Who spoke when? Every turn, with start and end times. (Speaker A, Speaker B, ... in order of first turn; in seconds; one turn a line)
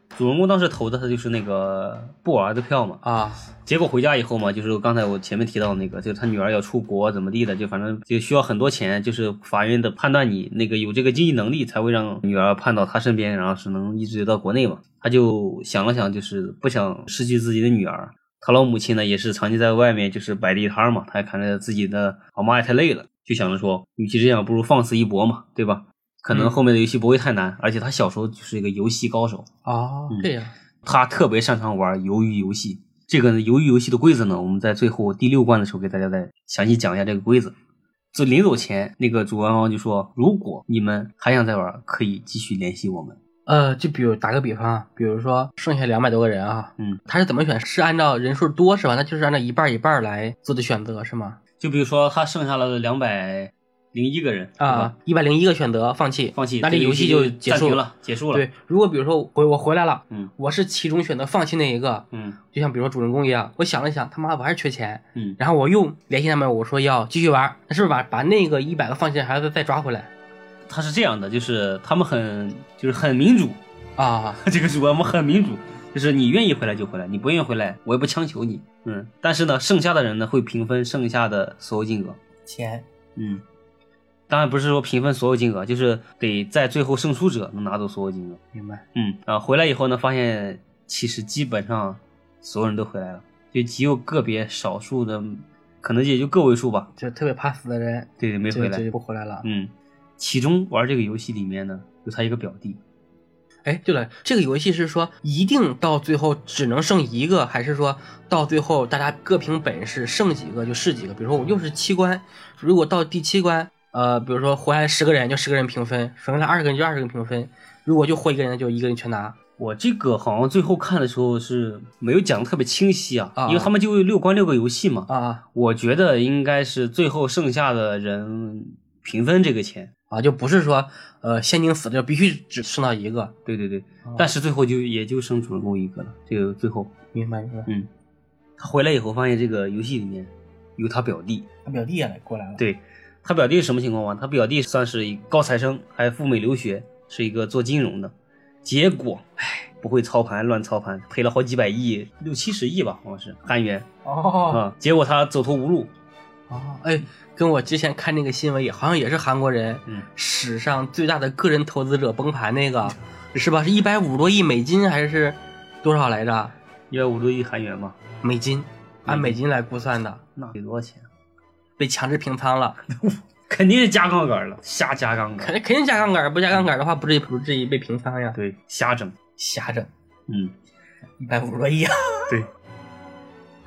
Speaker A: 0.1-3.0
Speaker B: 3.0-3.4
Speaker A: 3.6-29.5
Speaker B: 26.3-26.6
Speaker B: 29.6-30.5
Speaker A: 30.8-37.5
Speaker A: 38.1-43.2
Speaker B: 43.5-51.4
Speaker A: 51.6-54.9
Speaker B: 54.6-70.1
Speaker A: 56.3-58.5
Speaker A: 62.1-62.4
Speaker A: 70.7-73.6
Speaker B: 74.0-74.4
Speaker A: 74.4-82.2
Speaker B: 82.5-82.8
Speaker A: 83.2-83.4
Speaker A: 84.3-88.4
Speaker B: 88.5-88.8
Speaker A: 88.9-96.9
Speaker B: 97.0-99.5
Speaker A: 98.2-98.8
Speaker A: 99.4-102.8
Speaker B: 103.7-119.3
Speaker A: 119.6-129.9
Speaker B: 123.3-123.7
Speaker B: 125.1-125.4
Speaker B: 130.1-133.3
Speaker A: 133.4-136.9
Speaker B: 134.0-134.3
Speaker B: 137.1-137.7
Speaker A: 138.6-141.5
Speaker B: 141.6-142.6
Speaker A: 142.6-148.1
Speaker A: 148.6-153.9
Speaker B: 154.0-154.6
Speaker A: 154.5-155.9
Speaker B: 156.5-166.5
Speaker A: 166.9-168.0
Speaker B: 168.2-170.2
Speaker A: 169.1-169.4
Speaker A: 170.3-171.1
Speaker B: 171.8-172.8
Speaker A: 172.9-175.5
Speaker B: 175.4-178.4
Speaker A: 178.3-179.2
Speaker B: 179.4-179.9
Speaker A: 180.3-180.5
Speaker B: 181.2-182.3